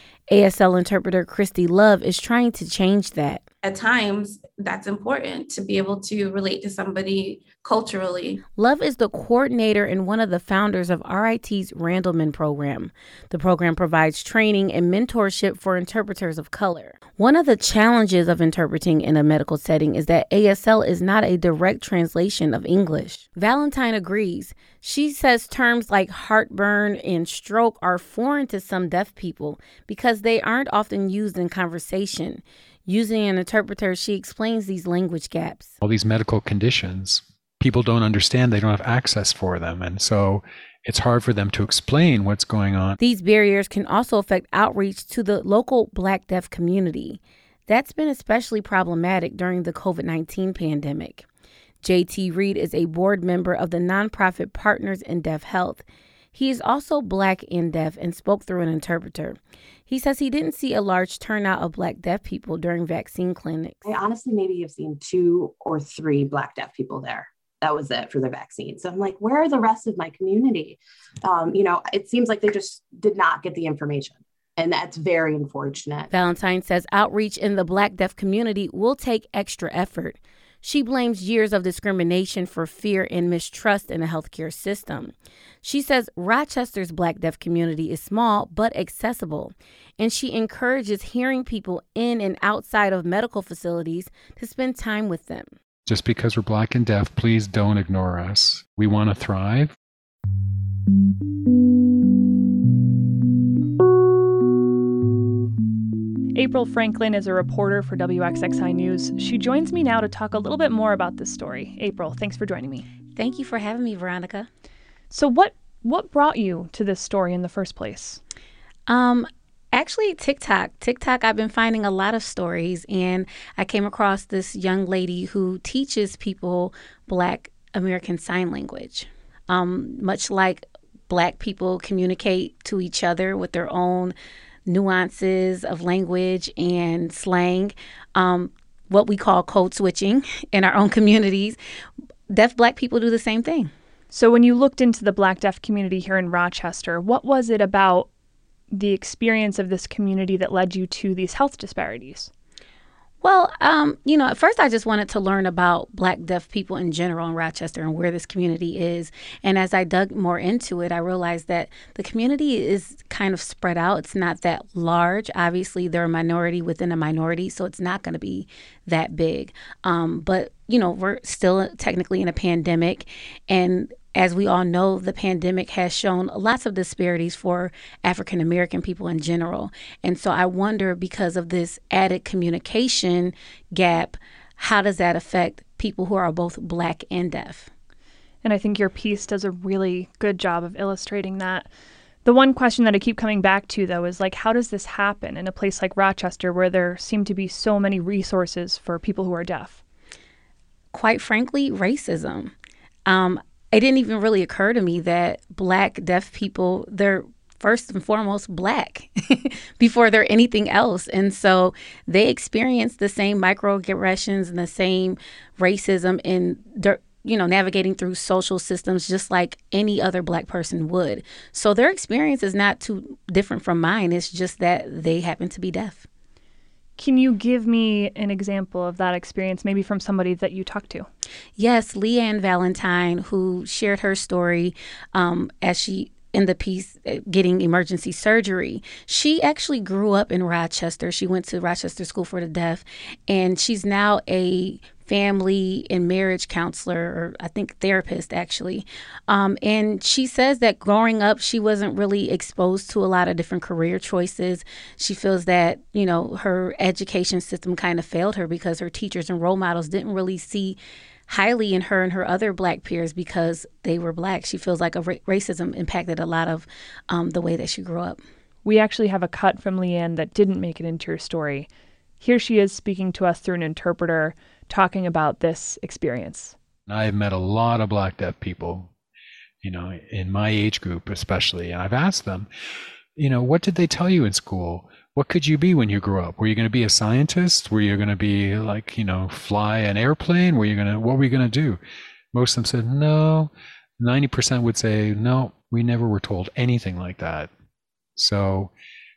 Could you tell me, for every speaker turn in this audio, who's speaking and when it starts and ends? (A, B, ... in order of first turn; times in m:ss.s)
0:00.3-0:03.4 A
0:03.6-0:08.4 B
0:08.6-0:35.7 A
0:35.8-0:43.0 C
0:43.0-0:51.2 A
0:51.8-1:03.8 A
1:03.8-1:16.1 D
1:16.1-1:35.5 A
1:35.8-1:39.7 C
1:46.3-1:52.9 E
1:53.2-1:54.5 A
1:55.1-1:58.2 E
1:58.9-2:14.1 A
2:14.6-2:21.6 A
2:22.3-2:23.7 A
2:24.1-2:28.1 E
2:28.7-2:32.3 E
2:33.2-3:07.7 A
3:08.4-3:11.7 E
3:12.2-3:19.8 E
3:20.9-3:22.5 A
3:23.0-3:46.1 A
3:47.0-3:51.1 E
3:51.6-4:28.2 A
4:28.6-4:31.7 E
4:32.2-4:36.5 E
4:36.9-4:38.9 C
4:39.6-4:42.5 C
4:43.2-4:51.8 C
4:52.3-4:57.5 C
4:58.2-4:58.7 C